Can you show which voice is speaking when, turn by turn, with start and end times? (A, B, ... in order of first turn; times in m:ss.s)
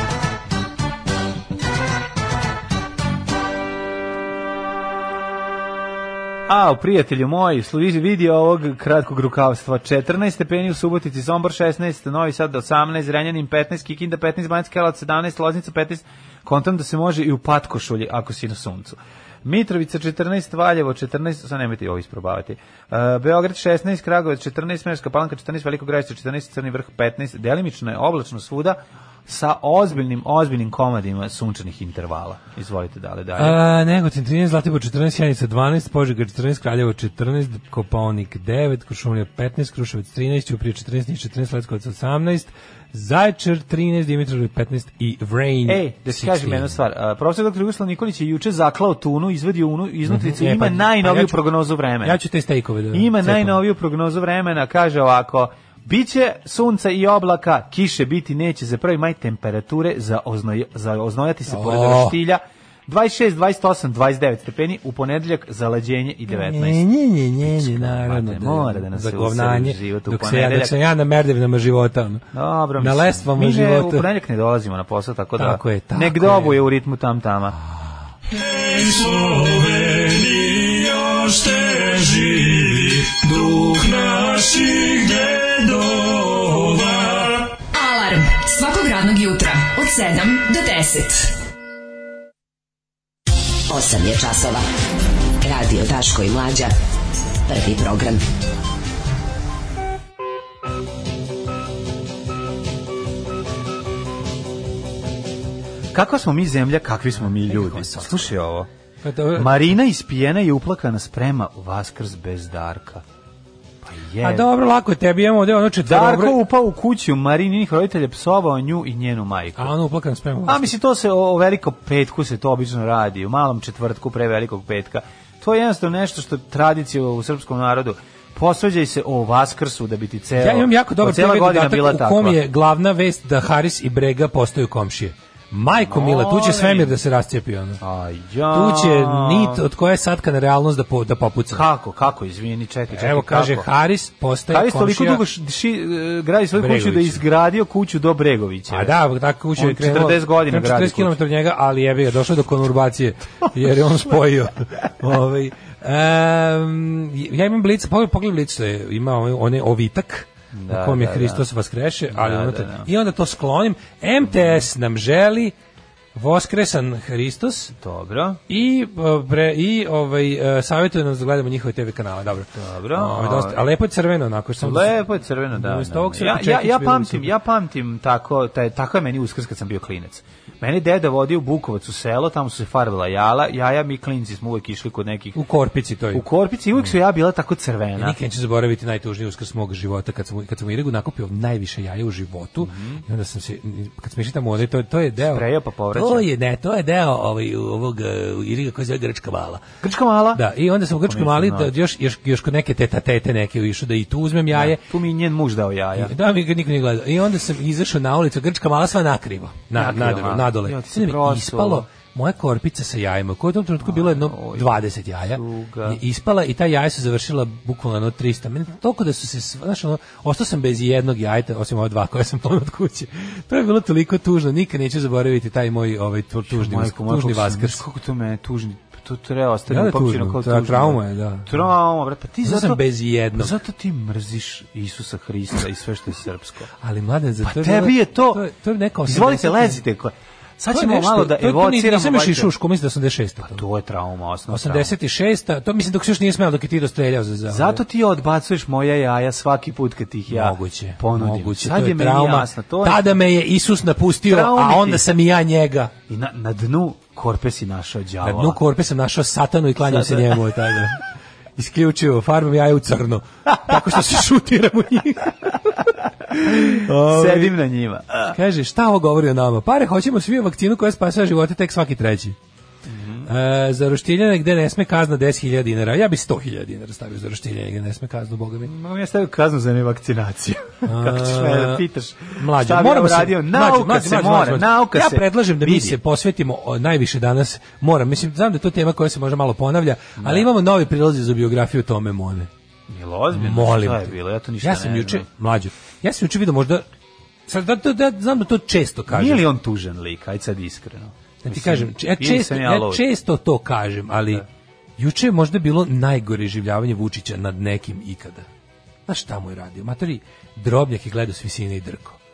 0:06.5-0:33.6 A
0:33.4-0:46.7 B
0:45.6-0:52.2 A
0:50.1-0:51.4 B
0:52.0-0:53.6 B
0:52.9-1:06.8 A
1:01.5-1:02.2 B
1:06.3-1:12.2 B
1:07.4-1:10.8 A
1:12.3-1:17.6 A
1:12.8-1:14.0 B
1:15.4-1:16.6 B
1:27.7-1:31.3 C
1:33.7-1:34.6 D
1:35.4-1:36.7 D
1:37.4-1:38.2 D
1:45.9-1:48.7 A
1:47.4-1:48.3 B
1:49.0-1:49.7 B
1:49.3-1:53.0 A
1:53.8-1:54.5 A
1:54.2-1:56.4 B
1:55.8-1:59.7 A
1:59.6-2:00.7 B
2:00.4-2:12.4 A
2:10.4-2:17.8 B
2:15.8-2:17.0 A
2:17.8-2:19.6 A
2:18.5-2:21.6 B
2:21.5-2:23.7 A
2:22.9-2:25.2 B
2:24.5-2:29.0 A
2:26.5-2:27.2 B
2:28.7-2:45.5 B
2:29.6-2:31.2 A
2:40.5-2:41.4 A
2:42.1-2:42.9 A
2:44.2-2:44.6 A
2:46.1-2:47.7 B
2:47.8-2:48.4 A
2:48.5-2:55.0 B
2:52.5-2:53.6 A
2:54.6-3:05.4 A
2:55.5-2:57.3 B
3:05.3-3:06.2 B
3:06.1-3:08.2 A
3:08.0-3:19.6 B
3:12.6-3:13.0 A
3:15.2-3:16.3 A
3:19.8-3:20.4 A
3:20.3-3:24.8 B
3:21.0-3:21.7 A
3:24.5-3:26.1 A
3:26.0-3:47.8 B
3:29.7-3:31.9 A
3:33.8-3:34.7 A
3:35.2-3:36.0 A
3:46.5-3:56.7 A
3:49.7-3:51.6 B
3:52.4-3:53.6 B
3:56.8-3:59.8 B
3:57.4-3:58.4 A
3:59.0-4:02.5 A
4:00.7-4:03.6 B
4:03.4-4:04.9 A
4:04.5-4:07.8 B
4:07.5-4:13.1 A
4:10.3-4:15.9 B
4:14.2-4:15.1 A
4:16.1-4:18.6 A
4:18.2-4:21.0 B
4:19.8-4:20.8 A
4:21.6-4:25.8 B
4:26.4-4:27.5 B
4:26.4-4:28.4 A
4:28.3-4:32.4 B
4:32.8-4:33.3 A
4:33.2-4:38.7 B
4:38.6-4:46.0 A
4:40.8-4:41.8 B
4:42.4-4:52.5 B
4:50.2-4:50.5 A
4:52.9-4:55.3 A
4:53.3-4:56.8 B
4:57.5-4:59.4 B
4:59.1-5:03.0 A
5:01.4-5:04.4 B
5:05.0-5:08.4 B
5:09.1-5:12.2 B